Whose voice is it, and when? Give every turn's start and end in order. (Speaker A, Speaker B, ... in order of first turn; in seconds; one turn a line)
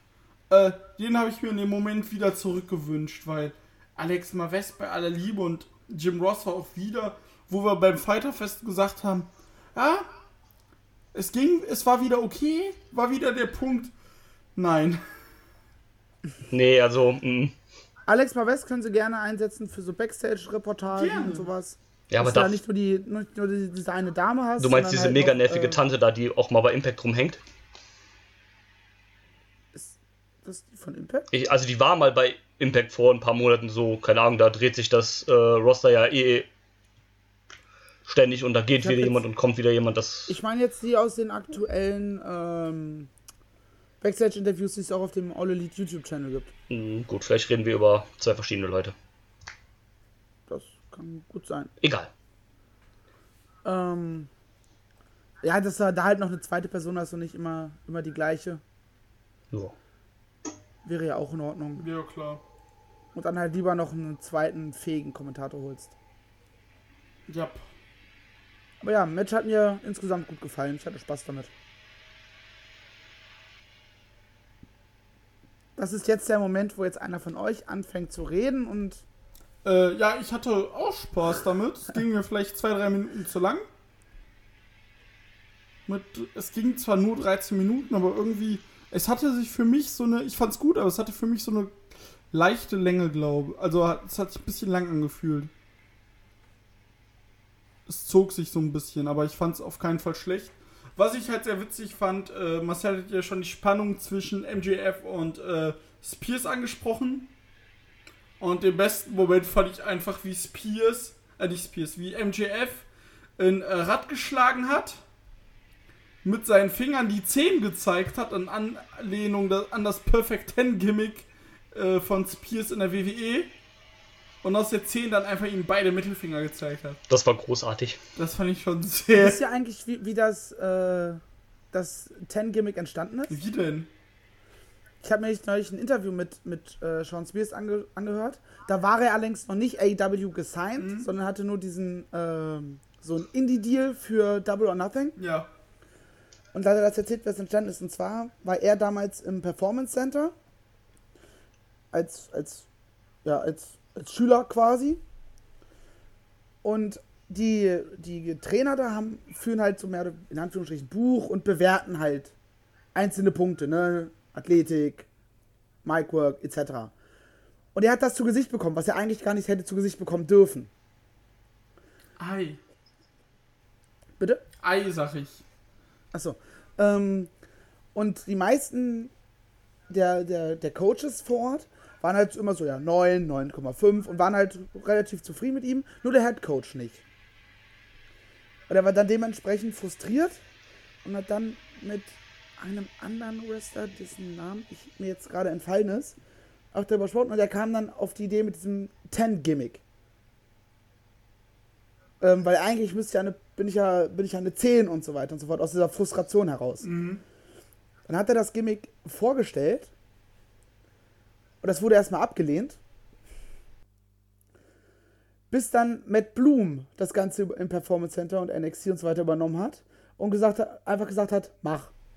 Speaker A: 0.5-10.1
Speaker A: 11.1-13.9
Speaker A: 14.6-15.0
Speaker B: 16.5-17.5
Speaker C: 18.1-25.8
Speaker A: 20.9-21.5
Speaker B: 22.1-22.6
Speaker B: 24.6-27.4
Speaker C: 29.7-31.3
Speaker B: 31.3-36.5
Speaker B: 38.0-40.4
Speaker C: 38.8-39.2
Speaker C: 40.3-43.1
Speaker C: 44.0-46.5
Speaker B: 46.7-48.9
Speaker C: 50.5-51.7
Speaker B: 51.8-52.1
Speaker C: 53.6-54.3
Speaker C: 55.4-58.6
Speaker C: 60.8-61.8
Speaker A: 61.8-62.4
Speaker C: 63.1-65.9
Speaker A: 67.3-67.6
Speaker C: 68.8-71.5
Speaker C: 75.8-79.0
Speaker A: 79.6-83.6
Speaker A: 85.9-91.7
Speaker A: 92.3-95.5
Speaker A: 97.9-107.3
Speaker A: 108.4-112.9
Speaker A: 113.4-115.0
Speaker A: 116.2-123.5
Speaker A: 124.4-127.0
Speaker B: 127.1-128.0
Speaker A: 128.2-129.4
Speaker C: 129.1-133.4
Speaker A: 133.3-133.9
Speaker C: 135.0-145.2
Speaker A: 140.8-141.1
Speaker A: 145.2-145.5
Speaker C: 146.5-150.3
Speaker C: 151.9-152.7
Speaker C: 153.2-155.0
Speaker C: 156.6-162.3
Speaker C: 162.9-165.1
Speaker C: 165.8-166.9
Speaker C: 167.7-170.7
Speaker A: 172.2-172.6
Speaker A: 174.6-175.4
Speaker C: 176.1-177.3
Speaker C: 177.9-179.1
Speaker C: 179.9-187.0
Speaker C: 188.7-190.4
Speaker C: 191.0-196.2
Speaker C: 196.7-199.8
Speaker C: 202.2-206.9
Speaker A: 206.8-207.2
Speaker C: 208.1-209.9
Speaker C: 211.6-212.8
Speaker C: 215.5-221.9